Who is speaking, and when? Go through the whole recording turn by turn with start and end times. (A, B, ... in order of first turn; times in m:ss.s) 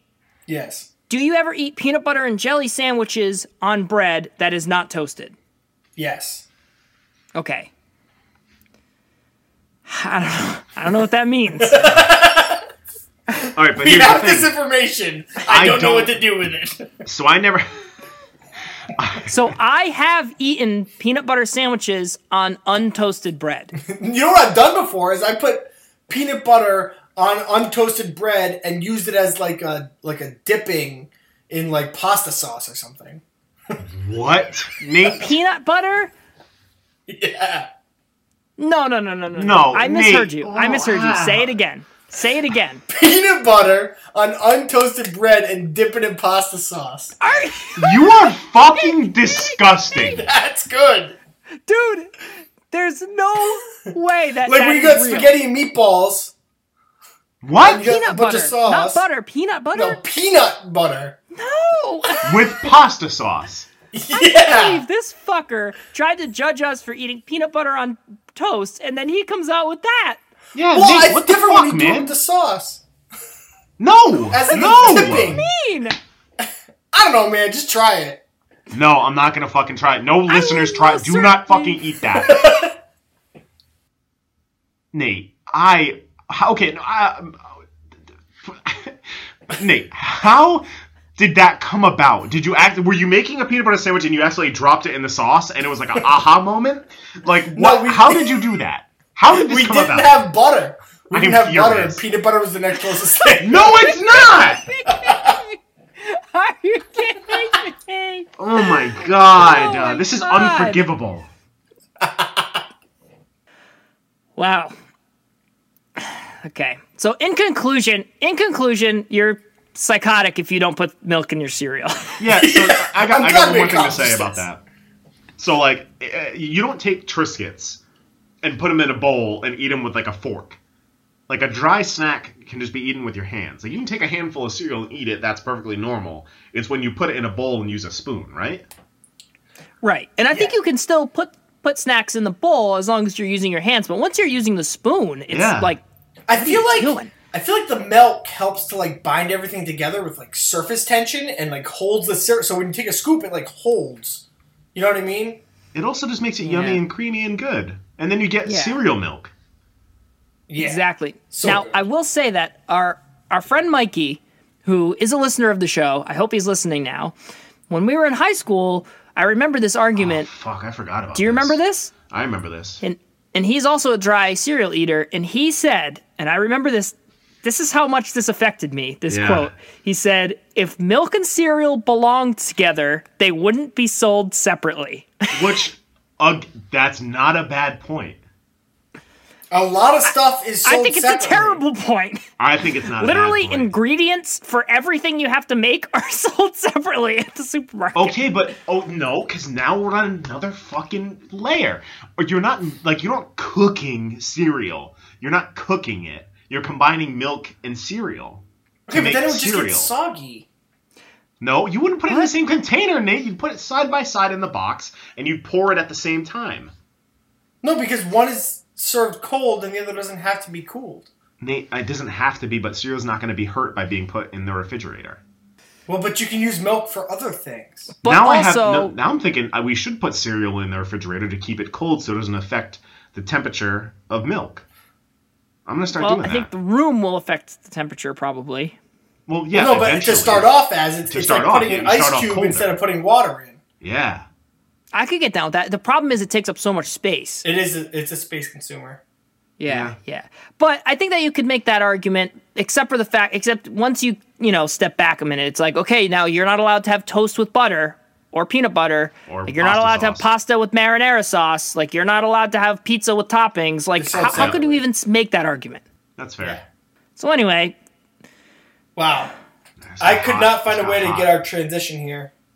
0:00.5-0:00.9 A
0:01.1-0:05.4 B
0:06.0-0:06.5 A
0:07.4-0:07.7 B
0:09.9-0:11.9 B
0:11.6-0:12.6 A
0:13.3-0:16.9 A
0:13.5-0:14.5 C
0:15.5-0:16.2 C
0:17.0-0:17.7 C
0:19.0-0:19.5 C
0:19.3-0:23.7 B
0:23.8-0:33.8 A
0:33.8-0:35.3 C
0:35.1-0:36.1 B
0:37.1-0:37.7 A
0:38.6-0:42.8 B
0:39.3-0:41.5 C
0:42.9-0:47.2 A
0:47.2-0:50.2 B
0:47.8-0:50.2 C
0:50.1-0:51.2 A
0:51.7-0:52.2 B
0:52.7-0:55.4 B
0:54.4-0:56.3 A
0:57.4-0:57.9 C
0:57.6-0:59.0 A
0:57.7-1:00.0 B
0:59.7-1:01.2 A
1:01.3-1:02.5 B
1:02.2-1:03.7 C
1:03.9-1:04.8 A
1:04.1-1:10.2 B
1:10.6-1:12.1 C
1:10.7-1:12.8 A
1:13.8-1:15.4 C
1:14.3-1:15.5 A
1:14.9-1:16.0 B
1:16.9-1:18.2 A
1:18.7-1:22.4 C
1:20.3-1:21.8 B
1:22.2-1:22.7 A
1:24.9-1:27.6 C
1:28.4-1:29.0 C
1:29.5-1:30.6 C
1:31.2-1:40.2 C
1:37.5-1:38.4 A
1:39.3-1:43.8 A
1:41.1-1:42.0 C
1:43.4-1:44.7 C
1:43.6-1:48.3 B
1:44.9-1:45.4 A
1:48.4-1:51.3 C
1:49.3-1:50.8 B
1:52.0-1:52.6 A
1:54.4-1:54.7 B
1:56.0-2:02.2 B
2:02.2-2:04.6 C
2:02.4-2:04.4 A
2:05.4-2:07.8 C
2:08.4-2:10.6 C
2:11.3-2:18.6 C
2:19.8-2:25.8 B
2:25.3-2:25.7 C
2:26.3-2:35.4 A
2:26.4-2:27.1 B
2:35.7-2:39.3 C
2:36.4-2:36.8 B
2:38.4-2:38.8 B
2:40.5-2:41.9 A
2:40.6-2:47.2 B
2:47.7-2:50.3 B
2:50.0-2:51.6 C
2:51.1-2:51.9 B
2:52.1-2:52.8 C
2:52.8-3:05.3 B
2:59.1-2:59.5 C
3:05.3-3:08.2 C
3:09.5-3:11.6 A
3:10.6-3:12.2 B
3:12.4-3:13.7 C
3:13.0-3:18.2 B
3:18.0-3:29.9 C
3:28.9-3:30.5 A
3:31.4-3:36.7 C
3:37.6-3:41.1 A
3:41.4-3:45.2 C
3:45.9-3:47.9 A
3:48.0-3:48.9 B
3:48.0-3:54.6 C
3:55.7-3:56.5 C
3:56.0-3:58.8 B
3:59.3-4:00.5 C
3:59.5-4:03.6 A
4:01.1-4:02.8 C
4:03.8-4:04.2 C
4:04.9-4:07.4 B
4:07.4-4:09.0 A
4:09.6-4:25.8 B
4:09.7-4:10.0 C
4:19.3-4:20.3 C
4:24.0-4:24.8 A
4:24.3-4:24.6 C
4:26.2-4:26.6 C
4:27.2-4:27.8 B
4:29.0-4:29.3 A
4:29.8-4:31.3 C
4:30.0-4:32.3 A